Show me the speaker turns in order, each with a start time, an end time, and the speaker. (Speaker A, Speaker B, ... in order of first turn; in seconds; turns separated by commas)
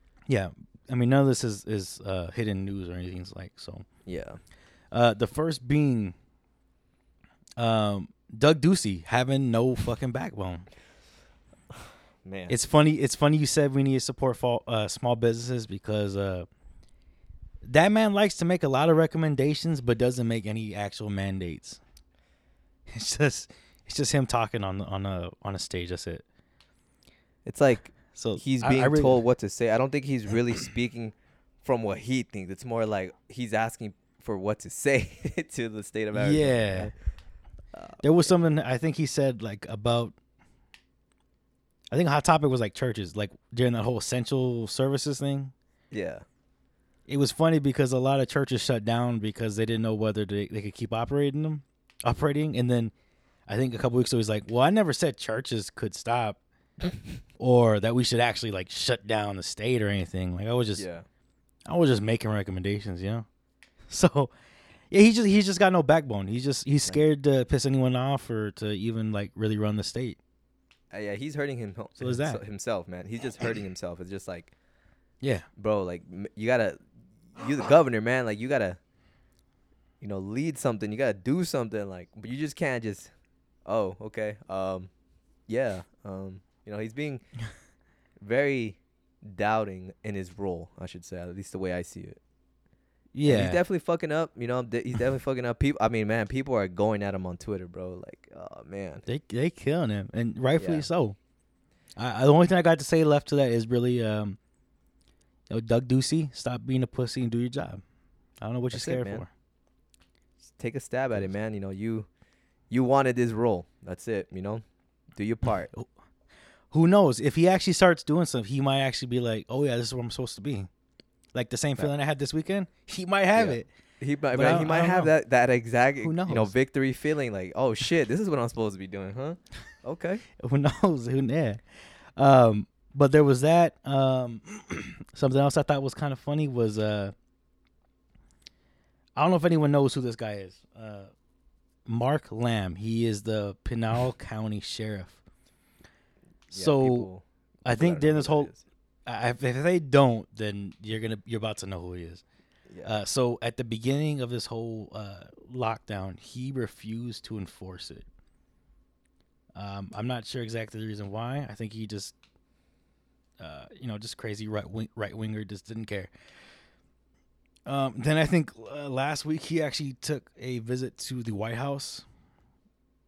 Speaker A: 0.3-3.9, Speaker B: 4.0-4.4, Speaker A: 4.9-6.1, Speaker A: 7.6-10.7, Speaker B: 12.2-12.5, Speaker A: 12.5-16.5, Speaker A: 17.6-21.8, Speaker A: 22.9-26.2, Speaker B: 27.4-36.9, Speaker A: 28.1-29.2, Speaker A: 36.1-36.9, Speaker B: 37.7-38.3, Speaker A: 38.0-40.1, Speaker A: 41.9-45.5, Speaker B: 45.9-46.2, Speaker A: 47.1-52.9, Speaker A: 53.5-56.4, Speaker A: 57.4-60.8, Speaker B: 60.8-61.0, Speaker A: 61.7-63.2, Speaker A: 63.9-64.3, Speaker A: 64.9-70.2, Speaker B: 70.9-74.5, Speaker A: 72.0-72.4, Speaker B: 75.6-76.8, Speaker B: 77.3-78.8, Speaker B: 80.0-83.1, Speaker B: 83.7-84.9, Speaker B: 85.5-87.2, Speaker B: 88.2-92.2, Speaker A: 93.1-93.6, Speaker B: 93.2-99.0, Speaker A: 99.0-101.2, Speaker B: 100.6-100.9, Speaker A: 102.0-104.4, Speaker A: 105.5-107.8, Speaker A: 108.4-109.3, Speaker B: 108.7-109.2, Speaker B: 110.5-112.1, Speaker B: 112.7-114.6, Speaker B: 115.1-115.7, Speaker A: 116.7-120.7, Speaker A: 121.3-123.7, Speaker B: 123.3-130.2, Speaker A: 124.3-125.1, Speaker A: 126.0-126.5, Speaker A: 130.4-131.6, Speaker A: 132.2-137.1, Speaker A: 139.2-141.1, Speaker A: 141.8-145.2, Speaker A: 146.5-147.1, Speaker B: 146.5-148.6, Speaker A: 147.7-148.5, Speaker A: 149.1-152.2, Speaker A: 152.8-158.1, Speaker A: 159.5-162.1, Speaker A: 163.4-166.1, Speaker A: 167.7-172.1